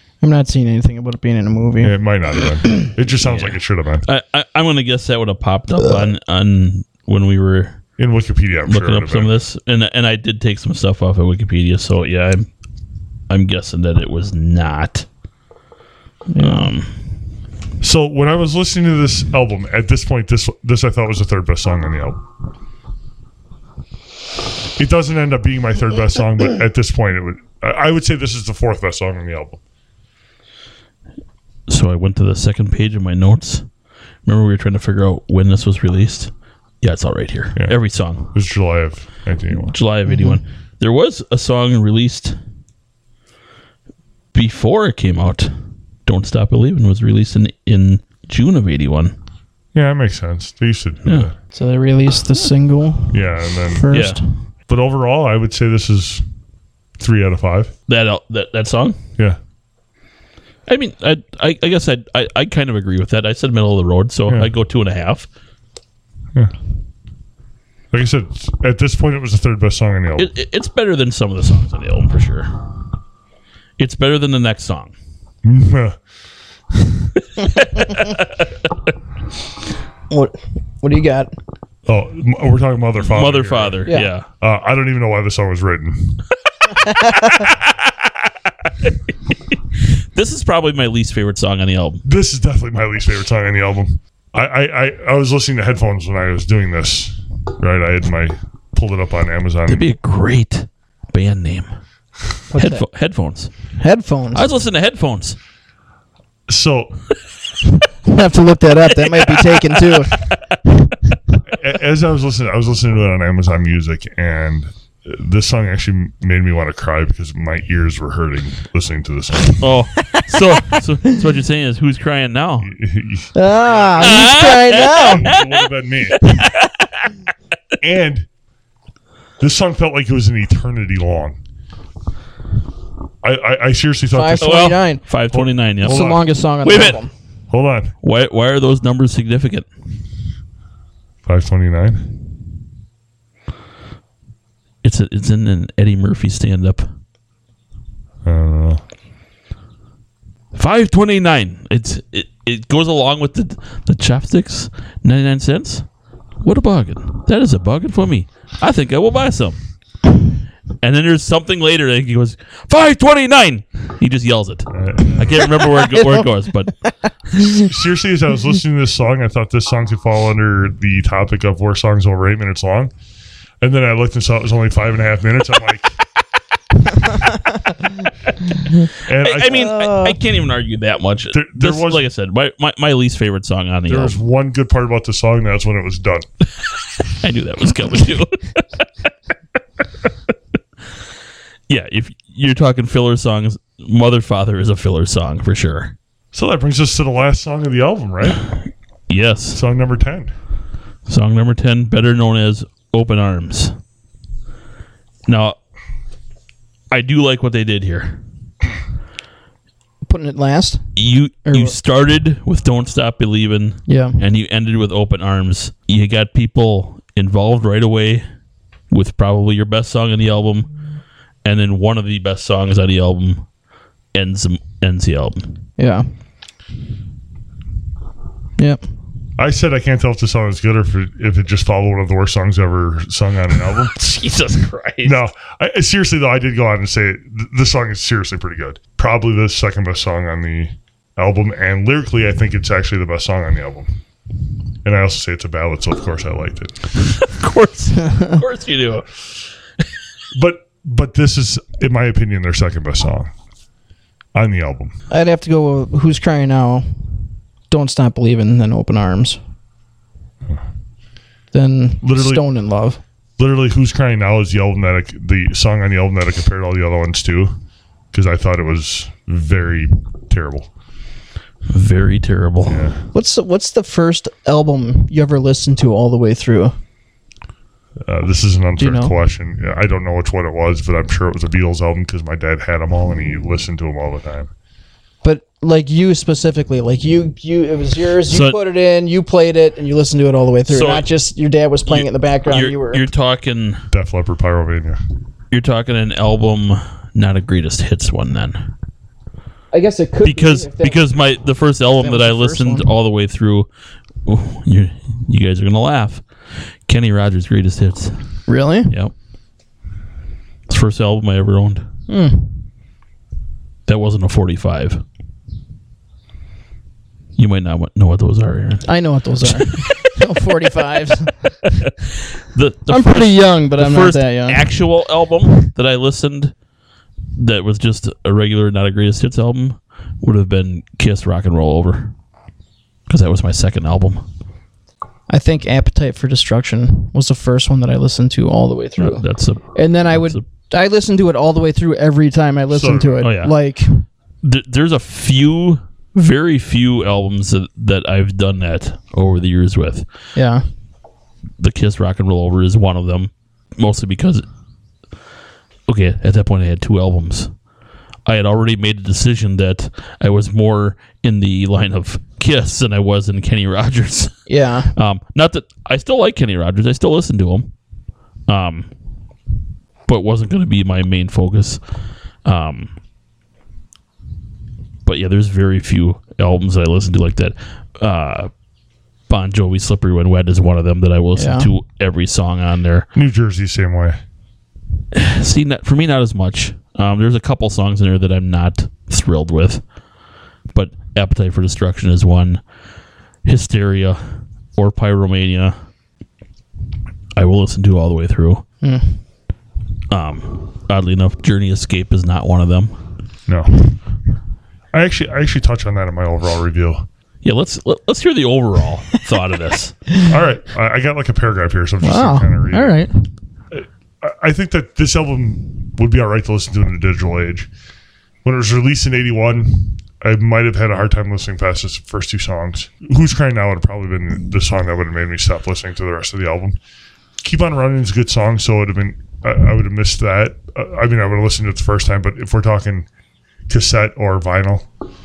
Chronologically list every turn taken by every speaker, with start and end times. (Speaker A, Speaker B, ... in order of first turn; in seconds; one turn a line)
Speaker A: 0.2-1.9
Speaker B: 1.8-4.1
Speaker C: 3.2-7.8
Speaker B: 8.0-9.4
Speaker C: 8.7-12.5
Speaker C: 13.3-15.1
Speaker A: 16.3-16.7
Speaker C: 16.4-16.9
Speaker B: 17.8-22.2
Speaker B: 24.8-29.6
Speaker C: 31.7-33.7
Speaker C: 34.3-36.3
Speaker C: 36.8-38.3
Speaker B: 38.3-39.7
Speaker C: 39.6-42.4
Speaker A: 40.1-40.4
Speaker C: 44.3-45.5
Speaker C: 46.1-49.1
Speaker B: 49.7-51.3
Speaker A: 51.5-54.2
Speaker B: 53.1-53.9
Speaker C: 53.9-54.2
Speaker B: 54.7-56.2
Speaker B: 57.0-57.7
Speaker C: 57.9-59.0
Speaker C: 60.7-65.3
Speaker B: 67.9-70.3
Speaker C: 70.2-72.5
Speaker C: 73.8-74.9
Speaker B: 75.4-76.0
Speaker B: 76.7-77.1
Speaker C: 77.4-78.3
Speaker A: 77.6-78.0
Speaker A: 80.1-81.3
Speaker B: 81.9-83.9
Speaker C: 83.0-84.3
Speaker A: 83.9-84.1
Speaker B: 84.4-86.2
Speaker A: 86.8-87.5
Speaker C: 90.0-92.0
Speaker B: 92.0-99.9
Speaker C: 99.7-101.7
Speaker A: 102.5-102.8
Speaker C: 102.5-103.5
Speaker A: 103.8-104.4
Speaker C: 104.3-105.4
Speaker B: 106.5-107.0
Speaker A: 108.0-110.1
Speaker C: 109.0-110.0
Speaker B: 111.5-119.7
Speaker C: 119.6-122.7
Speaker A: 120.0-121.2
Speaker B: 122.6-126.2
Speaker A: 123.3-125.3
Speaker C: 124.0-125.6
Speaker C: 126.2-127.1
Speaker B: 127.8-128.3
Speaker B: 129.4-131.4
Speaker B: 133.2-134.8
Speaker A: 134.1-135.0
Speaker C: 134.4-137.0
Speaker B: 135.3-136.2
Speaker A: 135.8-137.1
Speaker B: 137.5-137.9
Speaker C: 138.0-139.7
Speaker B: 141.3-142.1
Speaker C: 144.8-146.9
Speaker B: 148.2-148.8
Speaker C: 150.5-155.8
Speaker C: 156.4-159.6
Speaker C: 160.8-166.7
Speaker B: 164.7-165.5
Speaker A: 165.6-167.7
Speaker B: 167.6-172.9
Speaker B: 173.6-176.0
Speaker A: 177.2-177.9
Speaker B: 179.1-179.8
Speaker C: 179.2-184.2
Speaker A: 179.5-180.2
Speaker B: 181.3-182.1
Speaker B: 183.9-186.3
Speaker C: 187.1-188.9
Speaker C: 191.7-195.9
Speaker B: 196.3-198.5
Speaker C: 199.1-199.6
Speaker B: 199.5-200.3
Speaker C: 201.1-203.8
Speaker C: 205.3-205.6
Speaker C: 206.9-208.2
Speaker A: 210.0-210.8
Speaker C: 211.0-218.2
Speaker A: 211.5-211.7
Speaker A: 213.9-214.2
Speaker C: 218.9-220.7
Speaker C: 221.4-223.5
Speaker C: 224.1-225.5
Speaker A: 225.8-226.1
Speaker B: 229.4-233.9
Speaker C: 233.9-235.2
Speaker B: 235.0-243.9
Speaker B: 244.8-246.9
Speaker C: 247.2-249.1
Speaker A: 248.1-248.4
Speaker B: 250.3-253.3
Speaker B: 254.3-254.9
Speaker A: 255.1-256.9
Speaker A: 257.7-259.4
Speaker A: 261.5-263.0
Speaker B: 262.0-262.4
Speaker B: 263.4-267.6
Speaker B: 268.1-270.7
Speaker C: 271.7-272.9
Speaker B: 272.7-273.0
Speaker A: 273.1-276.7
Speaker B: 278.1-284.5
Speaker A: 278.8-279.1
Speaker A: 285.2-293.1
Speaker C: 288.3-288.6
Speaker C: 290.7-291.1
Speaker C: 291.9-293.9
Speaker B: 293.9-295.0
Speaker C: 295.5-298.7
Speaker A: 299.7-301.0
Speaker C: 300.2-303.7
Speaker A: 302.0-302.9
Speaker C: 304.3-306.2
Speaker C: 306.9-308.2
Speaker A: 308.5-308.9
Speaker C: 310.7-311.9
Speaker A: 312.1-312.5
Speaker C: 313.9-315.0
Speaker C: 317.4-318.9
Speaker A: 318.9-321.5
Speaker C: 319.4-320.2
Speaker C: 321.6-326.5
Speaker A: 322.9-324.7
Speaker C: 327.4-332.1
Speaker C: 333.1-334.2
Speaker A: 335.3-339.2
Speaker C: 339.0-340.4
Speaker A: 339.7-344.0
Speaker B: 342.7-343.2
Speaker C: 343.2-343.5
Speaker C: 344.4-350.1
Speaker A: 350.4-350.6
Speaker C: 351.6-354.4
Speaker C: 355.9-357.5
Speaker C: 358.3-364.4
Speaker A: 364.5-364.9
Speaker C: 364.9-367.7
Speaker C: 368.5-368.9
Speaker C: 370.1-371.8
Speaker C: 372.4-372.9
Speaker C: 375.1-378.5
Speaker C: 379.3-383.1
Speaker A: 381.4-381.7
Speaker B: 383.1-384.2
Speaker C: 385.1-389.8
Speaker C: 390.7-392.6
Speaker C: 393.4-394.2
Speaker C: 394.8-395.8
Speaker C: 397.4-398.6
Speaker A: 398.8-399.2
Speaker C: 400.1-402.9
Speaker B: 403.5-404.0
Speaker B: 404.9-407.1
Speaker C: 407.4-410.0
Speaker B: 410.3-413.0
Speaker A: 412.0-413.1
Speaker B: 413.7-417.7
Speaker B: 418.4-426.8
Speaker B: 427.4-433.1
Speaker B: 433.7-434.9